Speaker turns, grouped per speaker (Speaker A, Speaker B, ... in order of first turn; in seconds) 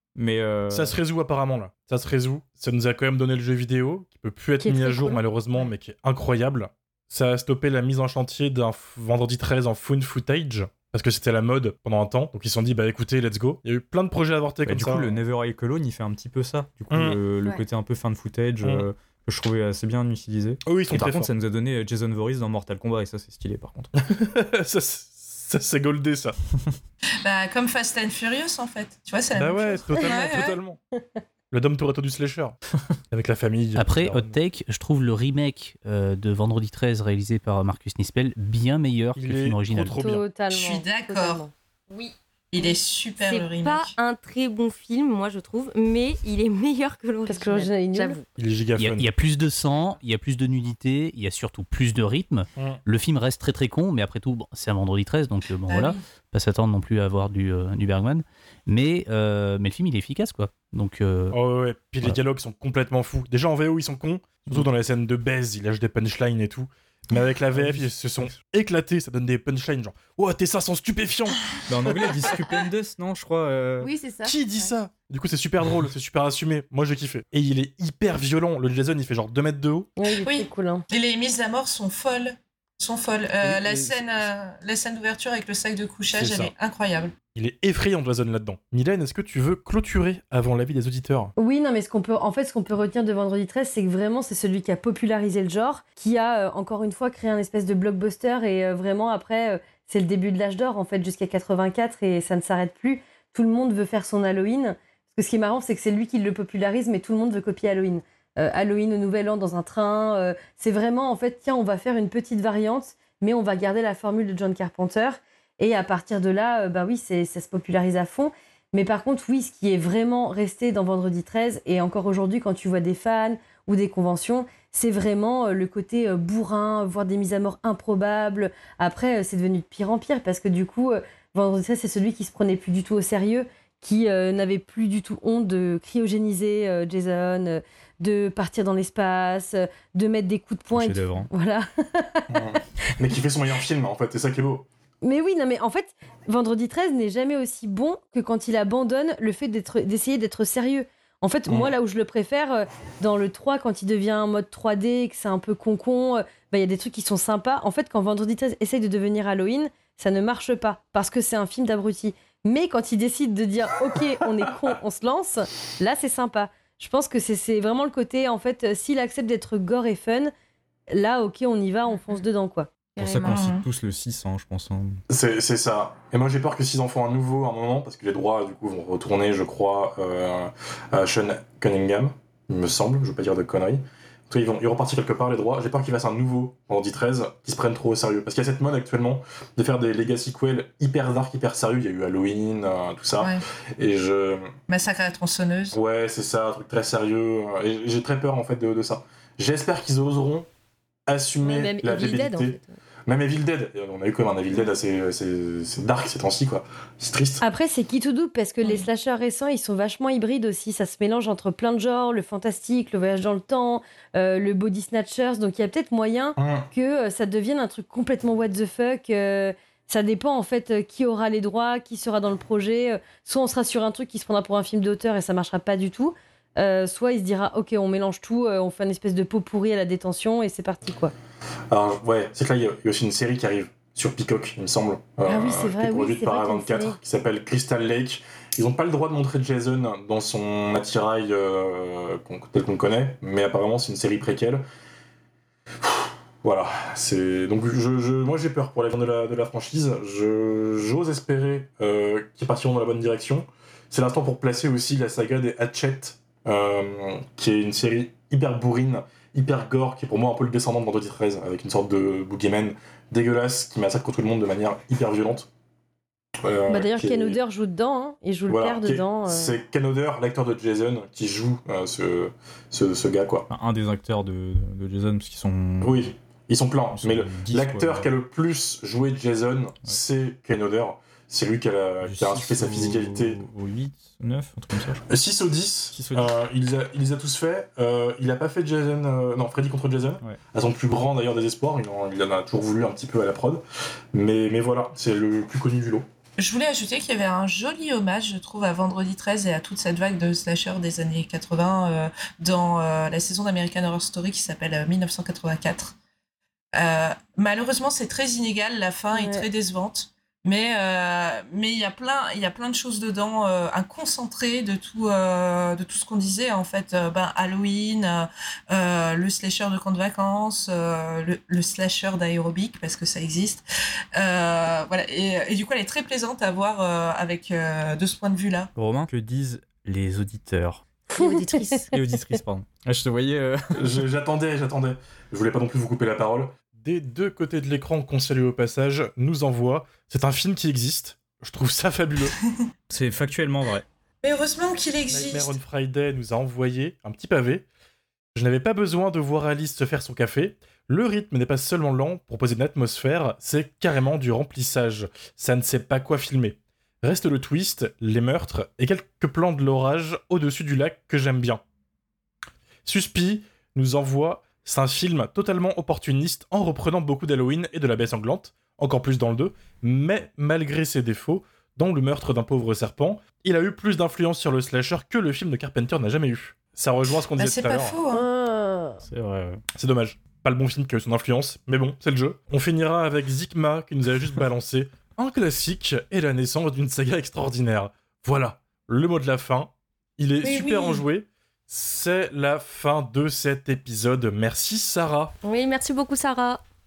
Speaker A: 0.1-1.0, 14.6-23.9, 67.5-67.9, 71.7-73.9, 83.4-84.3, 140.7-141.3, 173.0-175.0, 273.5-276.1, 276.9-278.1, 282.0-285.0, 285.9-286.3, 328.7-331.1, 331.9-334.0, 342.9-343.8, 379.0-379.6
Speaker B: 0.7-15.1, 16.9-17.2, 20.6-21.3, 24.0-26.4, 29.4-30.8, 31.5-32.6, 33.1-34.4, 39.1-40.4, 48.4-49.1, 61.3-71.4, 74.2-79.9, 86.1-86.5, 87.3-91.3, 142.3-144.7, 151.5-151.7, 175.1-194.5, 195.7-200.5, 201.1-207.4, 216.4-216.7, 231.7-244.6, 245.8-265.5, 266.4-267.4, 268.5-273.5, 275.8-283.4, 285.1-293.6, 294.1-296.0, 333.8-342.3, 345.1-347.7, 348.3-361.6, 362.8-378.0, 379.8-395.3
Speaker C: 4.6-5.2, 40.0-41.5, 47.2-48.2, 80.0-80.8, 91.4-142.4, 145.0-170.3, 170.9-172.7, 201.4-202.5, 207.4-231.1, 235.2-237.0, 266.7-269.6, 309.1-309.4, 331.1-331.8, 378.3-379.0
Speaker D: 27.2-30.6, 40.5-41.5, 42.5-43.9, 55.7-56.0, 80.2-87.1, 173.2-173.6, 193.2-193.4, 194.7-195.8, 296.4-305.9, 306.7-323.6, 324.1-328.7, 344.2-345.6, 377.4-378.2, 390.4-391.0
Speaker E: 33.8-40.0, 48.8-61.4
Speaker F: 41.9-48.2, 202.0-202.7, 395.4-396.6
Speaker G: 73.8-74.7, 172.9-173.6, 331.1-332.0